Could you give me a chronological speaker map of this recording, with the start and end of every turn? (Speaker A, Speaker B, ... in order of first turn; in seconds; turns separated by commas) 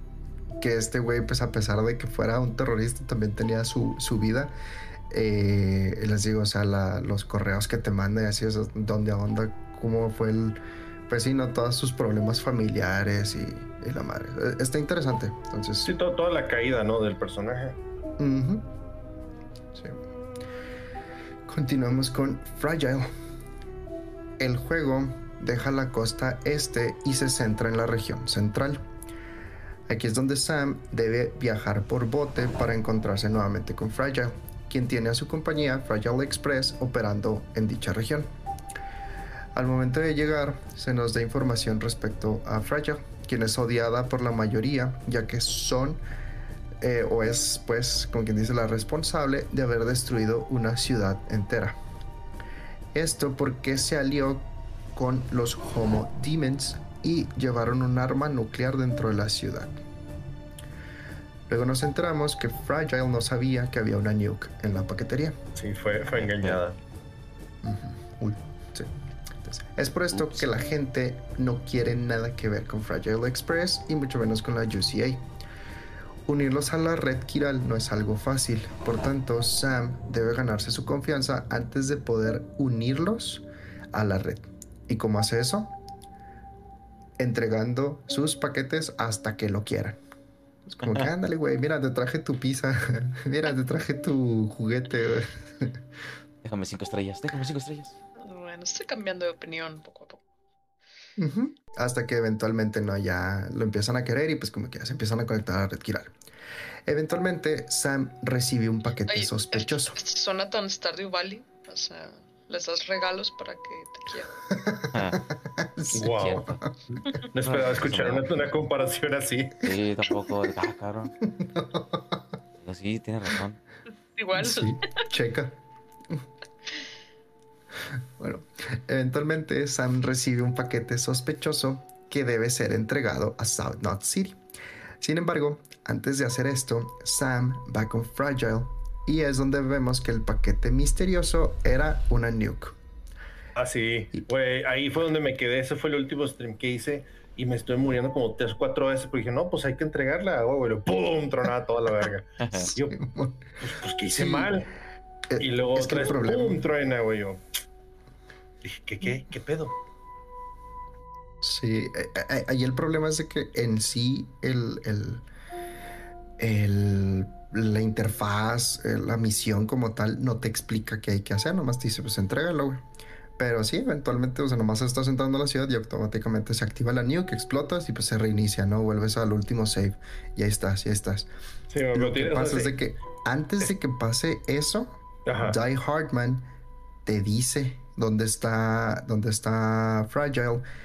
Speaker A: 0.6-4.5, Speaker A: 5.1-15.9, Speaker B: 15.8-17.8, Speaker A: 18.2-18.7, Speaker A: 21.5-23.1, Speaker A: 24.4-28.9, Speaker A: 29.9-38.3, Speaker A: 39.5-46.0, Speaker A: 46.8-51.8, Speaker A: 52.9-59.8, Speaker A: 61.5-65.4, Speaker B: 65.6-66.8, Speaker C: 66.1-66.6, Speaker A: 67.6-68.9, Speaker A: 69.5-75.2, Speaker C: 70.1-70.5, Speaker A: 76.3-85.8, Speaker A: 87.2-90.0, Speaker A: 90.7-95.8, Speaker C: 96.4-98.0, Speaker D: 98.2-100.2, Speaker A: 101.2-106.1, Speaker A: 106.9-110.0, Speaker D: 109.1-114.4, Speaker A: 114.5-116.7, Speaker C: 114.9-115.2, Speaker B: 115.9-116.4, Speaker C: 116.1-116.6, Speaker B: 117.3-119.7, Speaker C: 117.5-118.3, Speaker C: 119.6-121.1, Speaker A: 121.2-122.2, Speaker C: 122.6-123.6, Speaker D: 124.2-125.0, Speaker A: 124.3-125.6, Speaker A: 128.2-134.4, Speaker A: 135.0-142.8, Speaker B: 143.6-153.0, Speaker C: 152.4-152.7, Speaker A: 152.6-153.5, Speaker B: 153.6-154.7, Speaker A: 154.2-154.5, Speaker A: 155.3-156.7, Speaker B: 155.4-157.4, Speaker B: 158.6-159.7, Speaker A: 161.4-165.2, Speaker A: 166.4-172.8, Speaker A: 173.4-181.3, Speaker B: 181.7-182.8, Speaker A: 181.9-186.5, Speaker B: 185.3-185.6, Speaker A: 187.1-190.7